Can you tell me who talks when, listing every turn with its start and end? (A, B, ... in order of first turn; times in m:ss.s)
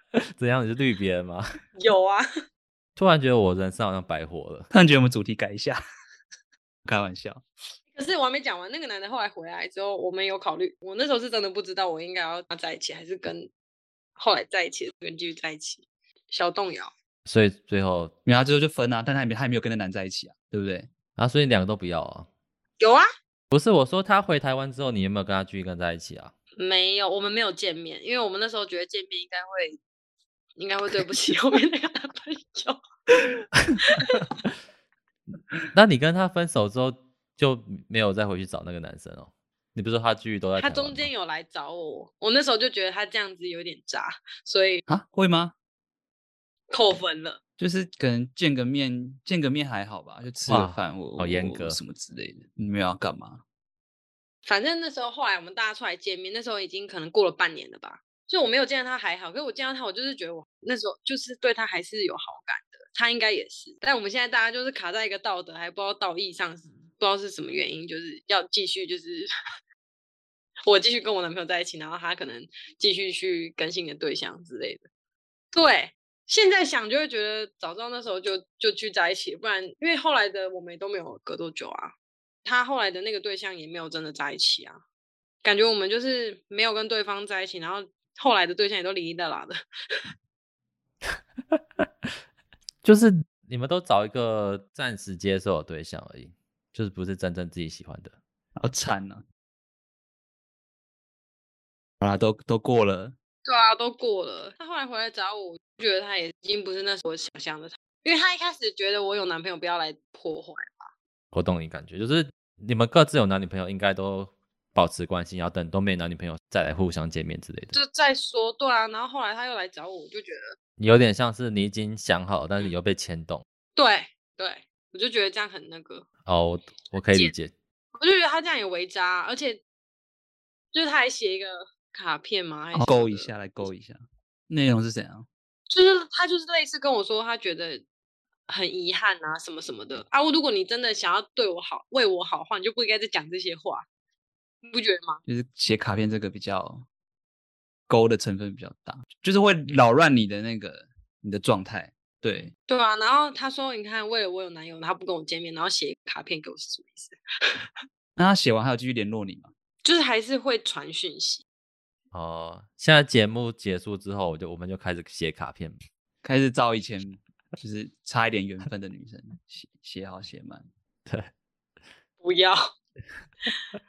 0:00.4-0:01.6 A
0:01.8-0:02.3 B
0:03.0-0:04.7 A
0:04.7-0:05.8 C
0:06.8-0:07.4 C
0:07.9-0:13.5 B
0:14.2-0:16.9 B
0:17.3-0:18.1 A
0:18.2-0:20.9 C
0:21.2-0:22.3 A
0:22.8-0:23.1 B
0:23.5-0:26.3 A
0:26.6-0:29.8 B
0:30.6-0:32.8 B
0:33.8-0:34.2 B
0:35.7-0:41.1 A
0:40.6-0:44.8 B
0:44.9-0:45.5 C
0:46.7-0:47.4 B
0:47.6-0:53.4 C
0:50.5-0:51.8 A
0:54.5-1:09.3 B
1:10.6-1:14.8 B
1:15.5-1:21.9 B
1:22.4-1:24.8 B
1:25.4-1:29.6 B
1:32.8-1:38.2 A
1:38.6-1:39.2 C
1:42.0-1:43.2 C
1:43.5-1:50.9 B
1:51.3-1:57.8 A
1:57.7-2:00.6 B
2:00.8-2:03.4 A
2:03.8-2:06.1 B
2:06.3-2:07.5 A
2:08.0-2:09.6 B
2:10.7-2:13.3 B
2:12.8-2:15.3 C
2:15.7-2:17.8 B
2:18.5-2:23.8 B
2:24.6-2:25.2 B
2:25.3-2:26.9 C
2:27.9-2:32.5 C
2:32.7-2:37.6 B
2:38.2-2:39.5 C
2:39.8-2:41.4 B
2:42.1-2:45.8 A
2:46.2-2:50.7 C
2:52.2-2:52.6 B